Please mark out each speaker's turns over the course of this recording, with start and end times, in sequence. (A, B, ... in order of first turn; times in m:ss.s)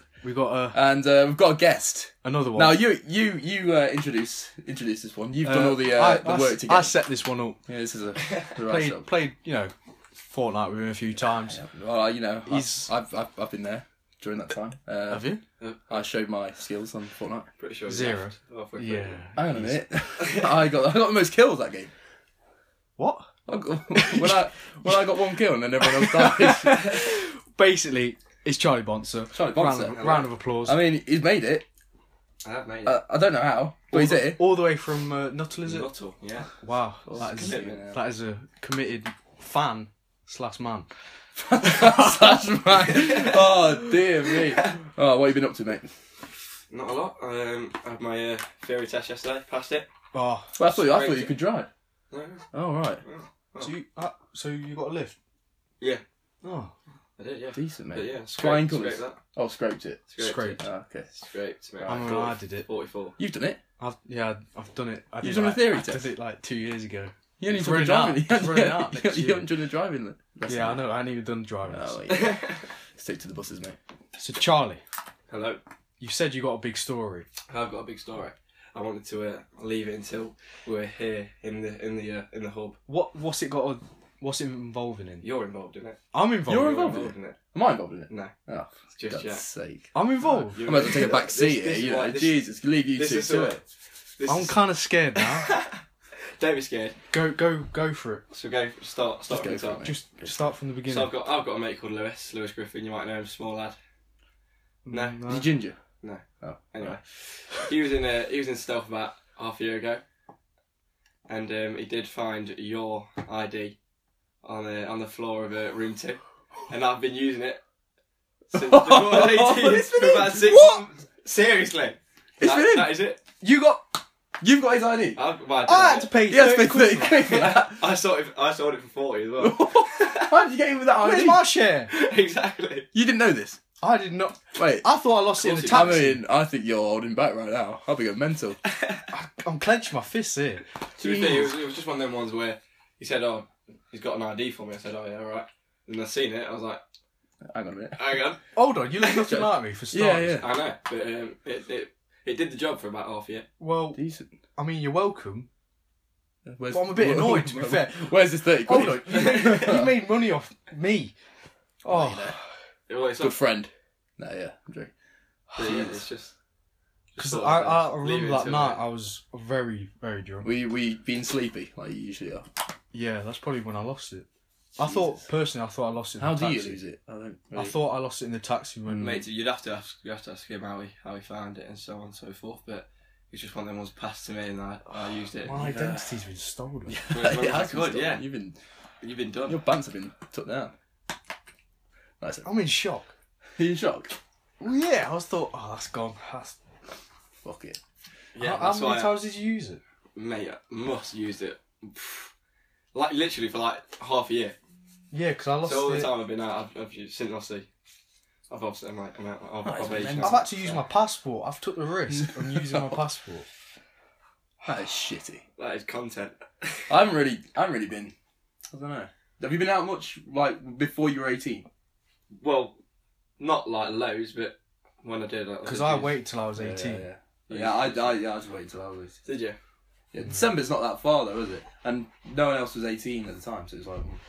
0:00.2-0:00.8 A
0:00.7-0:07.0 B
0:02.2-0:02.8 A
0:05.4-0:07.6 A
0:07.6-0:09.1 B
0:08.6-0:11.6 A
0:11.4-0:15.3 B
0:12.4-0:12.9 A
0:15.1-0:15.4 A
0:15.6-0:16.0 C
0:15.9-0:17.5 B
0:17.6-0:19.2 C
0:17.9-0:19.8 A
0:19.4-0:21.9 B
0:20.2-0:20.5 C
0:23.0-0:23.3 A
0:23.5-0:27.0 B
0:23.9-0:25.0 A
0:25.8-0:30.8 A
0:29.3-0:31.6 B
0:29.9-0:30.3 C
0:32.4-0:33.0 C
0:32.8-0:34.5 B
0:33.9-0:35.9 A
0:35.6-0:36.6 C
0:36.6-0:40.9 A
0:37.0-0:38.0 B
0:37.2-0:37.8 C
0:41.4-0:45.9 B
0:41.6-0:42.3 A
0:42.9-0:43.4 C
0:44.4-0:44.7 C
0:46.7-0:49.9 C
0:50.1-0:50.6 A
0:50.6-0:51.7 B
0:50.8-0:51.4 C
0:52.1-0:52.5 C
0:52.5-0:53.0 B
0:53.0-0:53.7 C
0:53.6-0:55.2 A
0:56.4-0:56.7 A
0:57.2-0:59.2 C
0:57.5-1:01.1 B
1:00.1-1:00.6 C
1:00.2-1:00.6 A
1:01.1-1:03.2 C
1:01.8-1:02.1 B
1:01.8-1:02.7 A
1:03.2-1:03.6 B
1:03.8-1:09.5 A
1:05.2-1:06.1 B
1:07.4-1:10.9 B
1:10.5-1:12.1 A
1:11.7-1:13.8 B
1:12.1-1:12.6 C
1:14.2-1:14.8 A
1:15.3-1:15.6 C
1:16.0-1:17.3 A
1:17.5-1:22.8 C
1:22.9-1:25.2 A
1:25.2-1:26.0 C
1:26.1-1:27.0 A
1:26.5-1:29.9 B
1:26.8-1:27.4 C
1:28.1-1:28.3 C
1:28.9-1:29.4 C
1:29.9-1:30.7 A
1:30.3-1:33.6 C
1:30.6-1:33.6 B
1:34.2-1:34.6 C
1:34.2-1:35.5 A
1:35.1-1:37.0 C
1:37.1-1:38.2 A
1:38.3-1:39.9 C
1:39.3-1:40.3 B
1:39.8-1:41.1 A
1:40.9-1:43.8 C
1:44.8-1:45.5 A
1:44.9-1:45.2 C
1:45.3-1:45.8 B
1:46.0-1:50.0 C
1:46.4-1:47.0 B
1:51.2-1:53.8 C
1:54.4-1:57.6 C
1:58.5-2:03.2 C
1:58.5-2:00.8 B
2:02.4-2:03.0 B
2:03.4-2:04.0 A
2:04.4-2:05.2 B
2:05.2-2:06.1 C
2:05.6-2:07.2 A
2:06.2-2:08.0 B
2:07.1-2:10.4 C
2:09.4-2:11.5 B
2:11.0-2:11.9 A
2:11.9-2:12.9 C
2:12.9-2:13.6 B
2:13.8-2:16.2 A
2:14.5-2:15.0 B
2:15.4-2:16.0 C
2:15.6-2:18.6 B
2:18.7-2:19.0 C
2:19.1-2:20.6 A
2:21.0-2:26.8 C
2:21.0-2:21.5 B
2:27.4-2:28.2 B
2:28.0-2:28.4 C
2:28.5-2:30.4 A
2:29.0-2:29.4 C
2:29.2-2:30.5 B
2:30.4-2:33.5 C
2:33.6-2:34.0 A
2:33.9-2:34.3 B
2:34.6-2:35.5 A
2:36.4-2:40.0 B
2:36.7-2:41.1 A
2:41.8-2:42.4 B
2:41.8-2:42.5 A
2:42.9-2:43.4 C
2:43.2-2:44.9 B
2:45.6-2:45.9 B
2:45.6-2:46.3 C
2:47.1-2:48.8 C
2:47.2-2:50.5 A
2:50.4-2:52.5 B
2:52.9-2:56.8 A
2:54.8-2:55.2 B
2:56.2-2:57.8 B
2:57.5-2:59.2 A
2:58.9-3:05.6 C
3:05.4-3:07.0 A
3:05.5-3:06.1 B
3:06.9-3:08.6 B
3:07.1-3:08.2 C
3:09.0-3:09.6 C
3:09.5-3:10.7 B
3:12.2-3:12.5 B
3:12.4-3:13.1 A
3:13.6-3:14.2 B
3:14.6-3:16.6 A
3:17.4-3:17.8 B
3:18.3-3:19.3 C
3:18.4-3:19.8 A
3:20.2-3:22.3 C
3:22.9-3:24.6 C
3:25.1-3:26.1 A
3:25.6-3:27.7 C
3:28.5-3:30.7 C
3:29.6-3:30.5 B
3:30.2-3:33.5 A
3:32.1-3:33.0 B
3:34.6-3:35.4 B
3:35.6-3:37.0 C
3:36.9-3:38.1 B
3:38.7-3:41.7 B
3:42.3-3:42.8 C
3:43.4-3:46.2 C
3:45.6-3:47.1 A
3:46.6-3:49.2 B
3:47.5-3:48.2 C
3:49.2-3:49.6 C
3:50.1-3:54.2 B